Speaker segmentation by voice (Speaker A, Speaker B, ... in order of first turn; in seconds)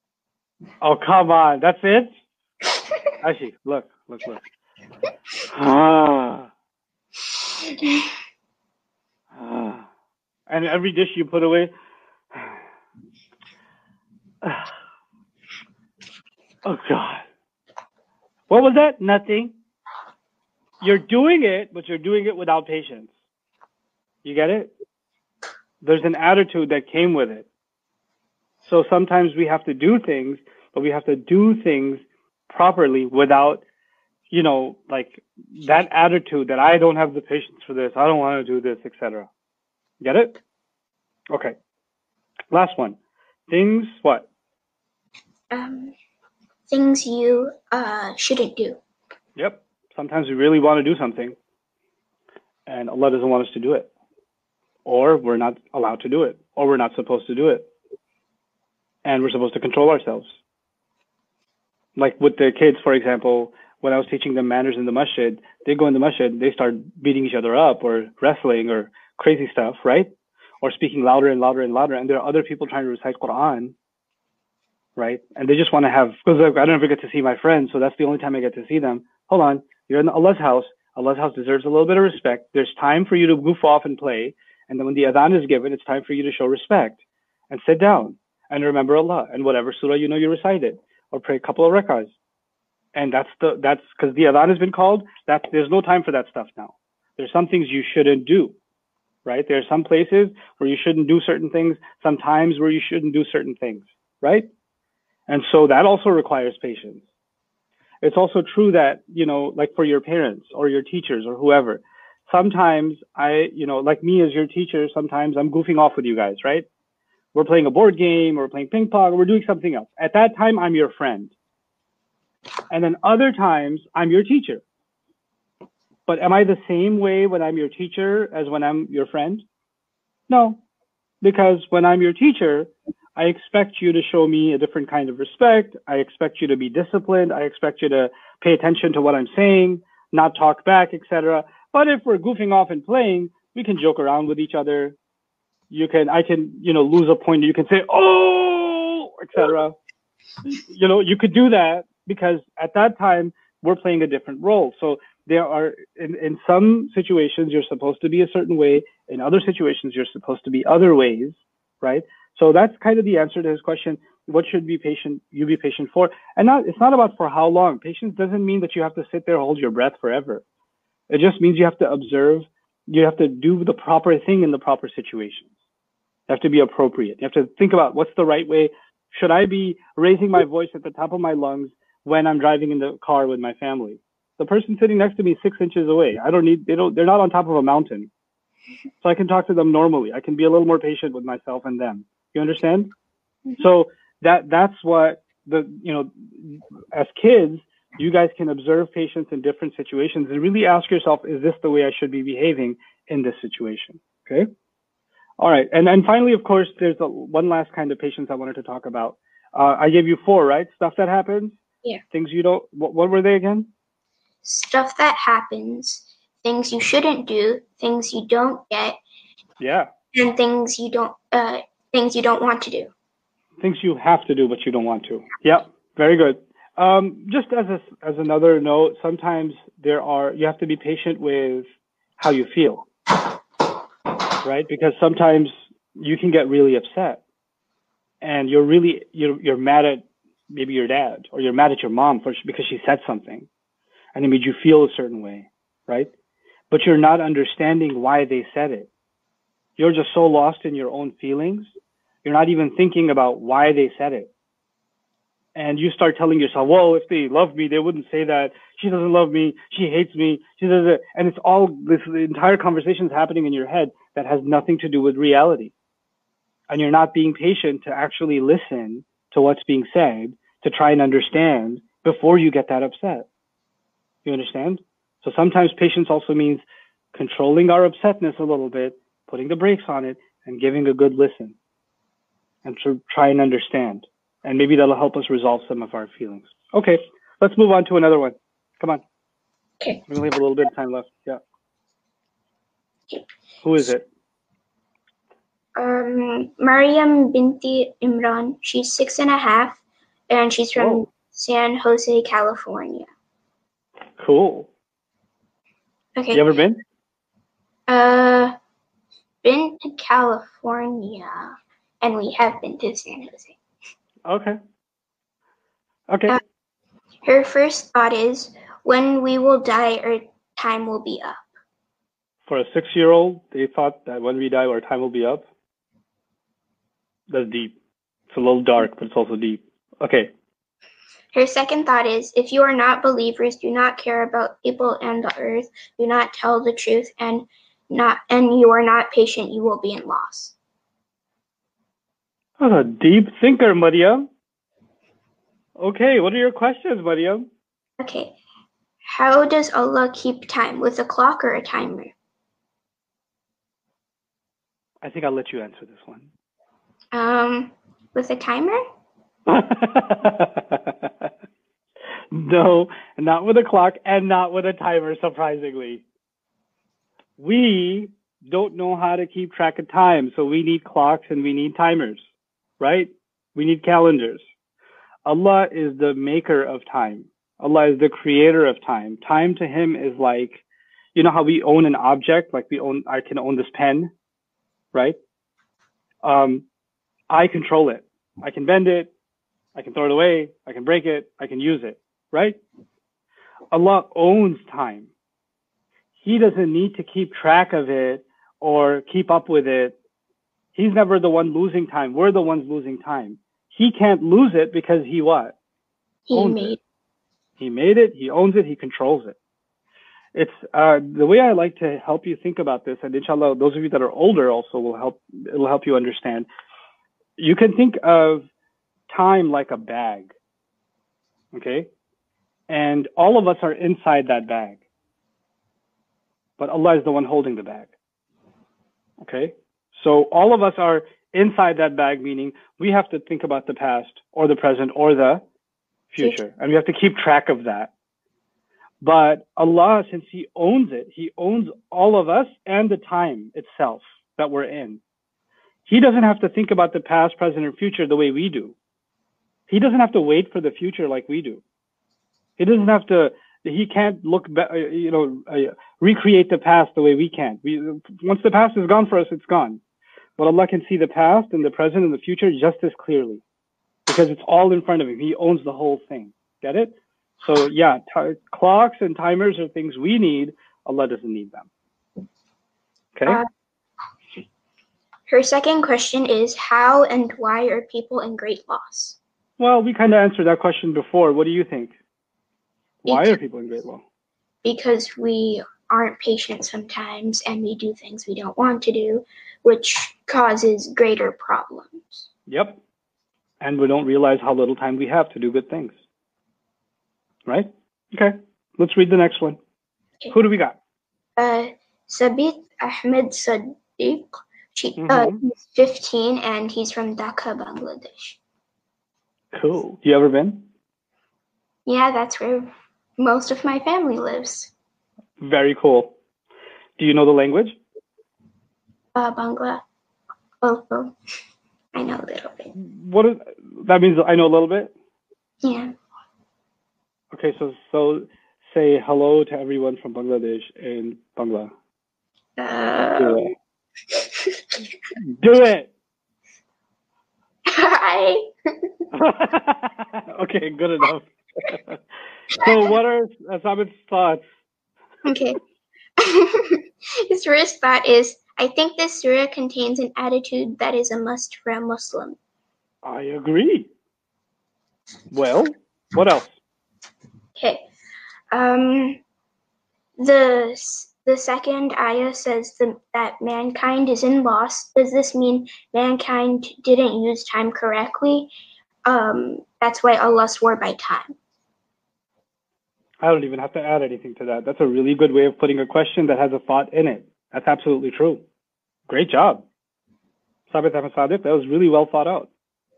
Speaker A: 0.8-2.1, 3.2-4.4, 5.5-6.5, 9.3-9.9, 10.5-11.7, 14.4-14.7, 16.6-17.2, 18.5-19.5, 20.8-23.1, 24.2-24.7, 25.8-27.4, 28.6-33.6, 34.3-39.3, 40.0-40.4, 41.3-41.6, 42.5-43.0, 43.5-44.3, 49.4-51.4, 52.7-53.9, 54.9-57.7, 59.0-60.3, 62.0-70.1, 70.6-73.7, 75.0-87.0, 87.5-92.1, 92.9-98.5, 99.2-104.5, 105.3-107.0, 108.0-116.7, 117.3-121.3, 122.7-124.6, 126.1-129.4, 130.3-130.6, 131.2-144.9, 145.7-149.7, 150.4-170.4, 171.1-175.5, 176.3-188.1, 189.0-192.9, 193.6-204.5, 205.4-211.6, 212.1-213.7, 219.6-219.9, 223.6-231.7, 232.2-232.9, 234.4-237.2, 238.2-243.5, 244.1-246.1, 246.7-248.9, 249.8-251.7, 252.2-254.3, 255.6-265.7, 266.7-273.3, 274.2-276.6, 277.1-281.6, 282.6-289.0, 290.1-291.4, 293.6-294.1, 300.8-301.1, 304.2-304.7, 306.3-306.8, 314.2-314.6, 316.1-316.4, 322.5-325.4, 327.3-327.7, 328.3-330.3, 342.6-344.3, 345.8-347.5, 355.0-356.3, 359.5-361.0, 362.3-366.0, 367.4-372.2, 372.8-374.4, 375.2-380.6, 381.1-384.1, 386.2-386.6, 387.3-389.1, 389.8-392.6, 393.7-395.1, 396.2-399.9, 400.7-405.6, 406.3-406.8, 407.6-409.4, 410.4-416.5, 417.4-418.5, 419.1-420.3, 421.5-421.9, 422.7-424.8, 426.6-427.9, 429.2-435.4, 436.1-437.9, 439.0-445.0, 445.9-448.7, 449.7-451.6, 452.6-459.8, 460.4-463.4, 464.1-471.7, 473.1-473.4, 479.6-481.9, 483.0-484.0, 492.5-492.8, 493.6-495.9, 497.5-499.6, 500.3-500.8, 505.0-505.4, 509.5-510.6, 515.4-516.1, 517.0-517.8, 522.7-524.9, 527.3-531.7, 533.2-533.5, 535.2-535.9, 539.1-542.0, 542.5-544.4, 553.0-553.9, 555.3-556.6, 573.2-578.4, 579.1-579.6, 580.7-582.5
Speaker B: 7.6-8.1, 45.5-45.9, 46.7-48.8, 214.4-219.0, 220.1-222.9, 295.8-303.1, 306.1-306.4, 307.9-308.6, 309.4-313.6, 317.2-321.4, 331.3-340.6, 348.0-348.4, 349.1-352.1, 357.1-358.8, 406.3-406.8, 475.3-479.2, 483.1-483.4, 484.6-492.3, 501.4-508.4, 511.9-514.7, 519.1-519.8, 520.6-521.1, 521.9-522.7, 525.6-525.9, 532.6-533.5, 534.1-534.6, 537.6-538.9, 545.2-545.6, 546.2-552.4, 557.6-557.9, 558.5-559.2, 560.2-568.5, 569.1-571.4